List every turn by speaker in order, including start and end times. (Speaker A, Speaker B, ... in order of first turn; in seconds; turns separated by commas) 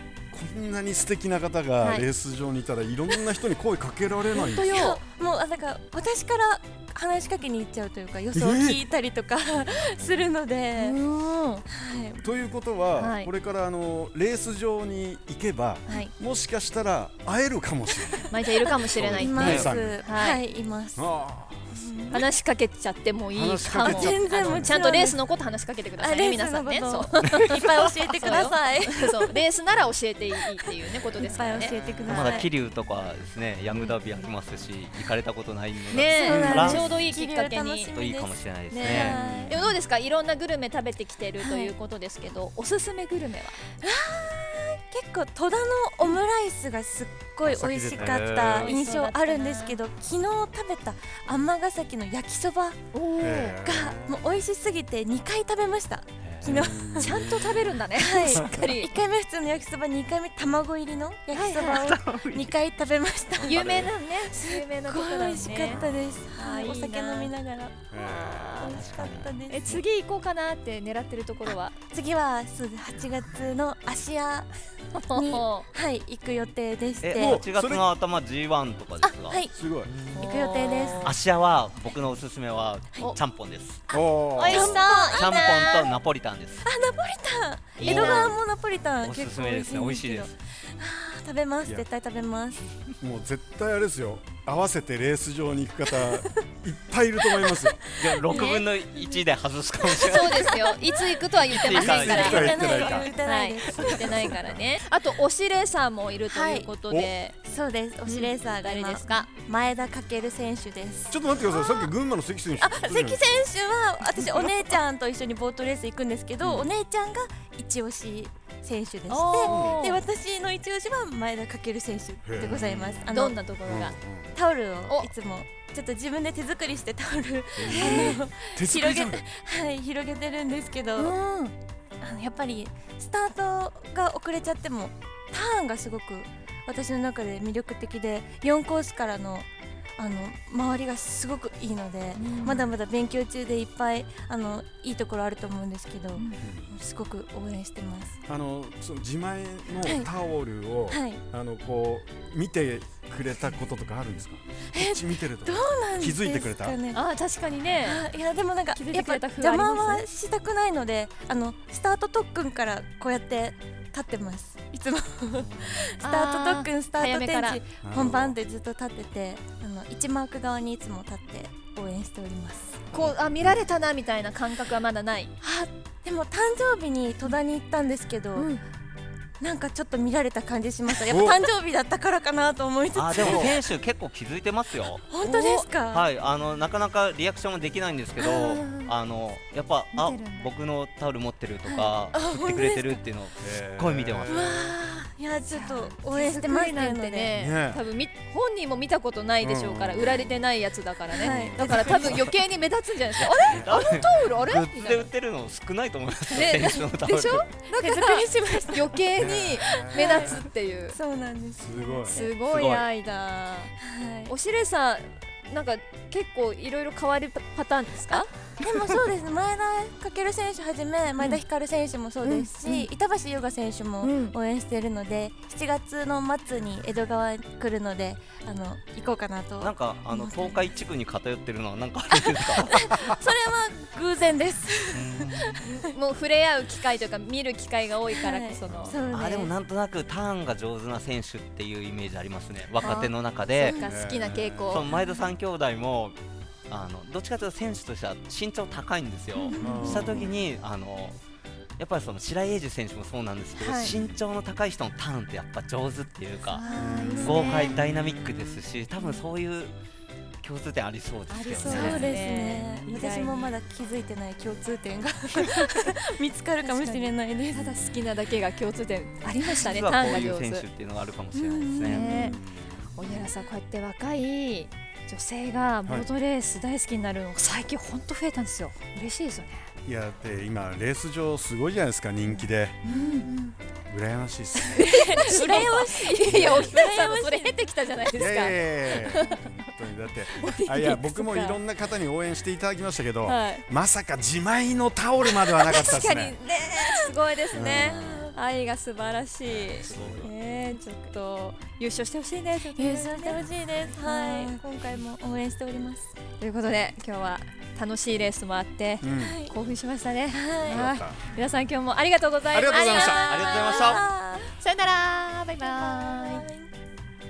Speaker A: 0.3-4.7, Speaker B: 4.3-5.0, Speaker C: 4.4-11.0, Speaker A: 8.3-8.8, Speaker B: 10.8-11.7, Speaker C: 11.7-12.2, Speaker A: 12.2-18.3, Speaker B: 13.0-13.3, Speaker B: 18.3-20.4, Speaker C: 18.7-21.1, Speaker A: 19.0-20.0, Speaker A: 21.0-22.2, Speaker C: 21.7-22.2, Speaker B: 22.1-32.4, Speaker A: 23.3-24.8, Speaker C: 23.8-25.2, Speaker C: 26.0-29.3, Speaker A: 31.0-32.2, Speaker C: 31.2-32.5, Speaker D: 32.1-37.0, Speaker B: 35.9-37.9, Speaker C: 36.2-39.7, Speaker D: 37.9-39.7, Speaker B: 38.7-43.6, Speaker C: 41.4-41.7, Speaker C: 43.8-57.2, Speaker A: 47.5-48.5, Speaker D: 48.0-48.8, Speaker B: 48.6-49.8, Speaker B: 52.9-53.5, Speaker A: 53.2-54.2, Speaker D: 56.2-56.8, Speaker A: 56.4-57.7, Speaker B: 57.0-58.9, Speaker C: 58.0-67.9, Speaker B: 61.3-61.8, Speaker D: 61.6-62.5, Speaker D: 63.4-63.9, Speaker B: 63.4-65.8, Speaker D: 65.4-66.2, Speaker B: 66.4-67.3, Speaker A: 67.9-69.1, Speaker B: 68.0-68.8, Speaker C: 68.6-69.8, Speaker D: 68.8-69.3, Speaker B: 69.5-71.8, Speaker C: 71.5-74.5, Speaker B: 74.9-75.7, Speaker C: 75.1-77.4, Speaker D: 77.0-80.4, Speaker A: 77.2-77.9, Speaker C: 79.0-79.5, Speaker A: 79.5-79.9, Speaker B: 80.2-81.1, Speaker C: 80.2-81.1, Speaker D: 81.0-83.9, Speaker A: 83.9-84.7, Speaker B: 84.0-85.8, Speaker C: 84.5-85.9, Speaker D: 84.5-86.7, Speaker C: 86.6-92.6, Speaker B: 87.8-88.3, Speaker D: 87.8-88.4, Speaker D: 89.0-90.3, Speaker A: 93.0-97.8, Speaker D: 98.0-100.6, Speaker C: 98.0-98.8, Speaker B: 99.9-107.4, Speaker C: 100.5-100.8, Speaker D: 101.5-102.6, Speaker C: 101.6-104.4, Speaker A: 101.7-103.2, Speaker A: 103.7-104.6, Speaker C: 106.3-106.7, Speaker A: 106.9-107.1, Speaker C: 107.4-111.9, Speaker B: 108.0-109.3, Speaker A: 111.1-113.4, Speaker C: 112.6-123.4, Speaker A: 116.4-116.7, Speaker B: 119.1-120.0, Speaker A: 119.4-120.0, Speaker A: 122.2-123.0, Speaker B: 122.4-124.0, Speaker A: 123.7-124.3, Speaker C: 124.3-131.2, Speaker A: 127.6-129.2, Speaker B: 127.7-128.2, Speaker B: 131.0-131.5, Speaker C: 132.0-139.5, Speaker C: 140.0-148.2, Speaker B: 142.2-142.7, Speaker A: 146.4-146.7, Speaker A: 148.3-156.8, Speaker C: 149.8-150.1, Speaker C: 150.9-151.2, Speaker C: 154.7-157.0, Speaker B: 156.9-158.1, Speaker C: 157.8-172.9, Speaker B: 158.7-160.1, Speaker B: 166.0-167.6, Speaker A: 167.8-168.4, Speaker B: 172.9-175.3, Speaker A: 173.4-173.7, Speaker C: 175.4-178.6, Speaker B: 178.4-178.6, Speaker C: 179.4-183.6, Speaker A: 181.1-181.4, Speaker D: 182.9-185.1, Speaker A: 183.2-183.5, Speaker C: 185.1-186.1, Speaker B: 185.2-185.7, Speaker D: 185.8-194.5, Speaker B: 188.2-188.9, Speaker B: 189.9-190.5, Speaker C: 191.7-193.0, Speaker A: 193.4-194.6, Speaker C: 194.3-197.4, Speaker B: 194.6-194.9, Speaker B: 195.5-205.1, Speaker A: 197.3-197.8, Speaker A: 199.4-200.3, Speaker C: 201.1-202.2, Speaker A: 201.2-202.3, Speaker D: 203.2-207.5, Speaker A: 203.5-203.7, Speaker B: 206.3-211.0, Speaker C: 207.7-209.0, Speaker A: 209.2-210.4, Speaker C: 209.6-212.4, Speaker A: 211.6-212.9, Speaker B: 212.1-213.7, Speaker C: 213.8-214.3, Speaker B: 214.3-218.3, Speaker C: 218.1-230.7, Speaker B: 222.2-222.9, Speaker B: 224.0-224.3, Speaker D: 229.6-232.8, Speaker C: 232.7-235.8, Speaker D: 234.9-235.7, Speaker B: 235.8-239.0, Speaker C: 238.2-239.5, Speaker D: 238.7-243.8, Speaker B: 242.8-245.0, Speaker C: 242.8-243.9, Speaker A: 243.8-244.9, Speaker D: 244.7-246.2, Speaker D: 246.7-251.2, Speaker B: 249.4-250.3, Speaker C: 249.5-250.0, Speaker A: 249.6-250.3, Speaker D: 251.8-256.6, Speaker B: 253.6-253.9, Speaker A: 253.9-254.2, Speaker B: 256.5-257.8, Speaker C: 256.7-257.5, Speaker A: 256.8-257.8, Speaker D: 257.2-259.8, Speaker D: 260.4-262.9, Speaker B: 261.3-263.5, Speaker C: 261.6-267.8, Speaker B: 266.6-270.7, Speaker D: 269.5-272.1, Speaker C: 271.3-272.4, Speaker B: 271.8-272.4, Speaker A: 272.1-273.3, Speaker B: 273.0-279.7, Speaker A: 279.9-282.8, Speaker B: 282.9-283.4, Speaker C: 282.9-283.5, Speaker A: 283.9-284.8, Speaker B: 284.6-289.4, Speaker C: 284.8-287.6, Speaker A: 286.2-286.8, Speaker A: 288.2-296.4, Speaker B: 290.4-291.6, Speaker B: 293.2-293.6, Speaker B: 295.6-303.4, Speaker A: 297.5-298.3, Speaker C: 297.8-298.4, Speaker A: 299.4-300.3, Speaker D: 299.9-300.2, Speaker C: 302.7-306.1, Speaker B: 304.0-304.6, Speaker B: 306.4-314.0, Speaker A: 309.0-309.4, Speaker C: 309.1-309.5, Speaker C: 310.3-310.9, Speaker A: 310.7-311.2, Speaker A: 312.5-313.2, Speaker C: 312.7-314.6, Speaker D: 313.2-314.0, Speaker B: 314.6-316.4, Speaker C: 315.6-316.7